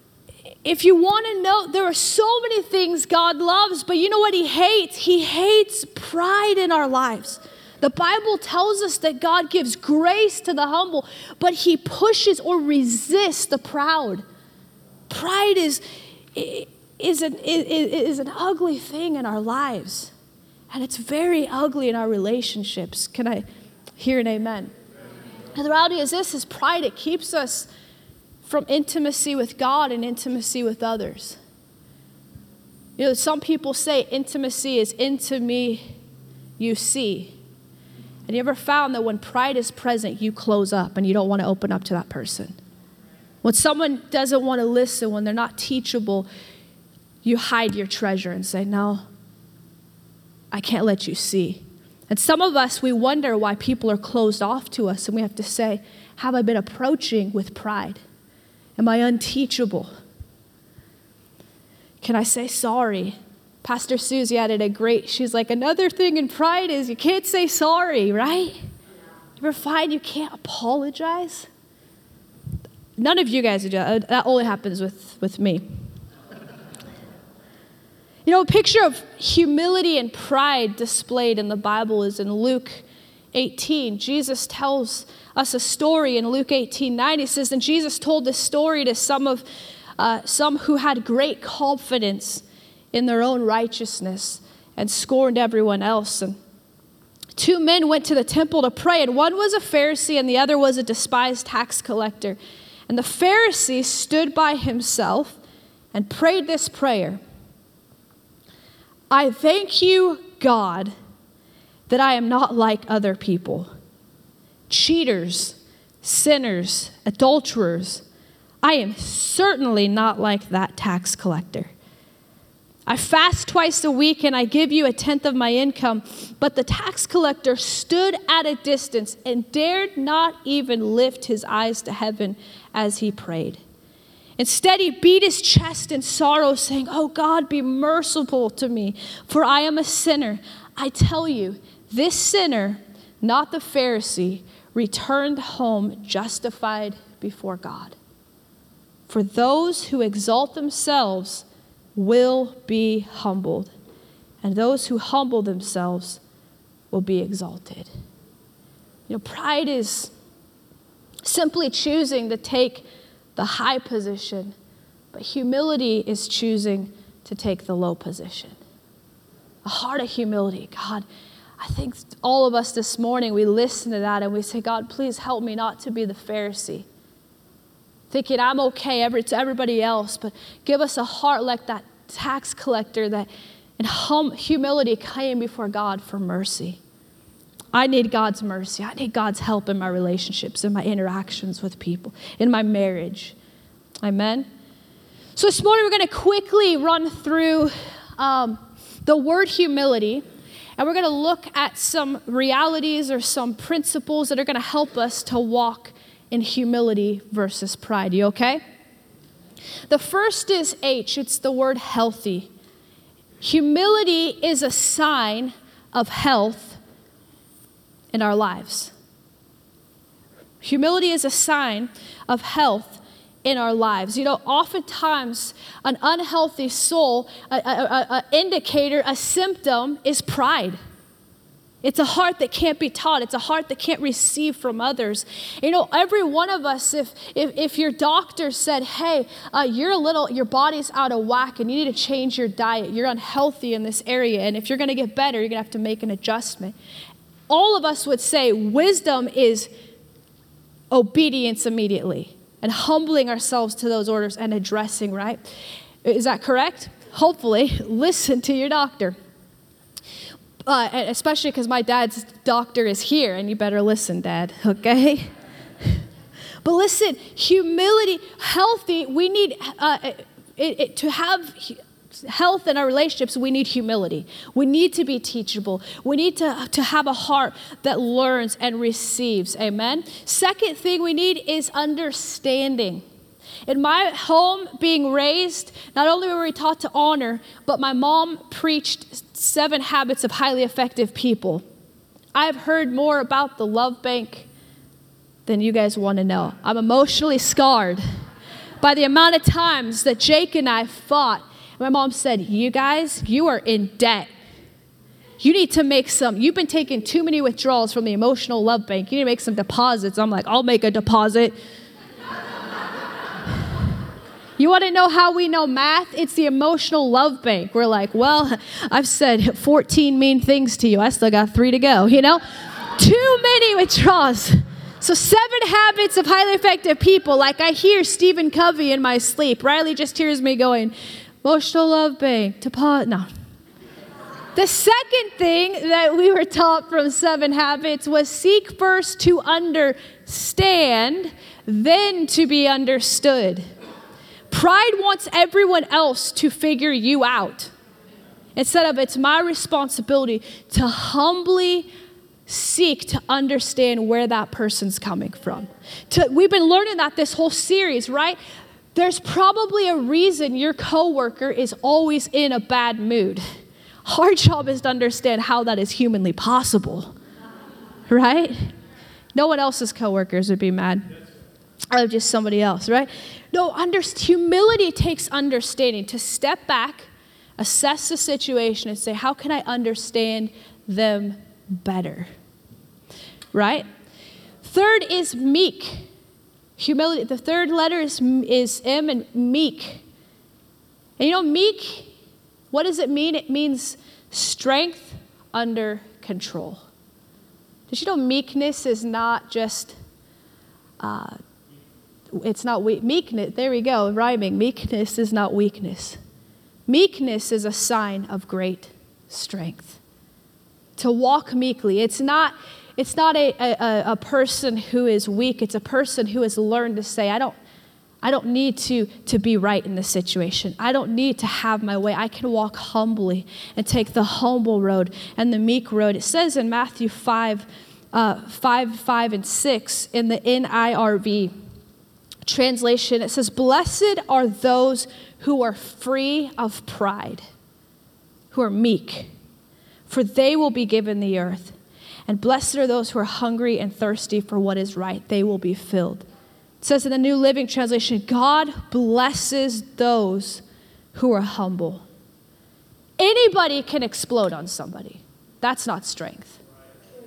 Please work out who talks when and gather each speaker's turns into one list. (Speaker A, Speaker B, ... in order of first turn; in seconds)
Speaker A: 0.6-14.2, 15.1-15.8, 16.3-20.1, 20.7-23.4, 24.0-24.7, 25.5-27.7, 28.4-31.4, 33.0-35.8, 36.6-37.4, 38.3-42.5, 43.4-46.3, 47.2-49.0, 50.5-58.0, 58.8-59.9, 62.0-68.6, 69.4-71.5, 73.0-75.6, 78.2-89.4, 90.0-96.4, 97.3-102.4, 102.9-105.4, 105.9-107.2, 109.1-110.9, 111.9-113.7, 114.7-118.0, 118.6-121.7, 122.8-133.6, 134.4-148.0, 149.1-153.7, 154.4-156.2, 156.9-157.9, 159.1-160.1, 161.2-164.5, 165.1-168.6, 169.6-171.1, 171.6-176.8, 178.1-186.8, 187.7-193.3, 194.0-194.5, 195.3-200.2, 200.8-208.6, 209.9-212.5, 213.4-216.8, 218.1-218.9, 220.6-230.8, 231.8-246.7, 247.5-249.7, 250.9-255.4, 256.0-259.1, 260.6-265.3, 266.6-283.0, 283.6-291.6, 292.3-294.5, 295.4-298.0, 298.8-304.3, 305.4-311.6, 314.6-322.4, 323.0-333.3, 334.5-343.6, 344.5-347.7, 348.6-351.9, 352.4-358.4, 358.9-363.4, 364.0-367.1, 368.1-368.7, 369.3-371.1, 371.9-382.3, 383.5-383.9, 384.6-386.1, 386.8-390.0, 391.2-392.1, 392.7-396.8, 397.9-399.9, 401.0-401.4, 402.3-406.2, 406.9-410.0, 411.0-417.6, 418.2-431.5, 432.4-437.4, 438.5-439.3, 440.1-441.7, 442.3-446.2, 446.8-452.0, 453.2-456.6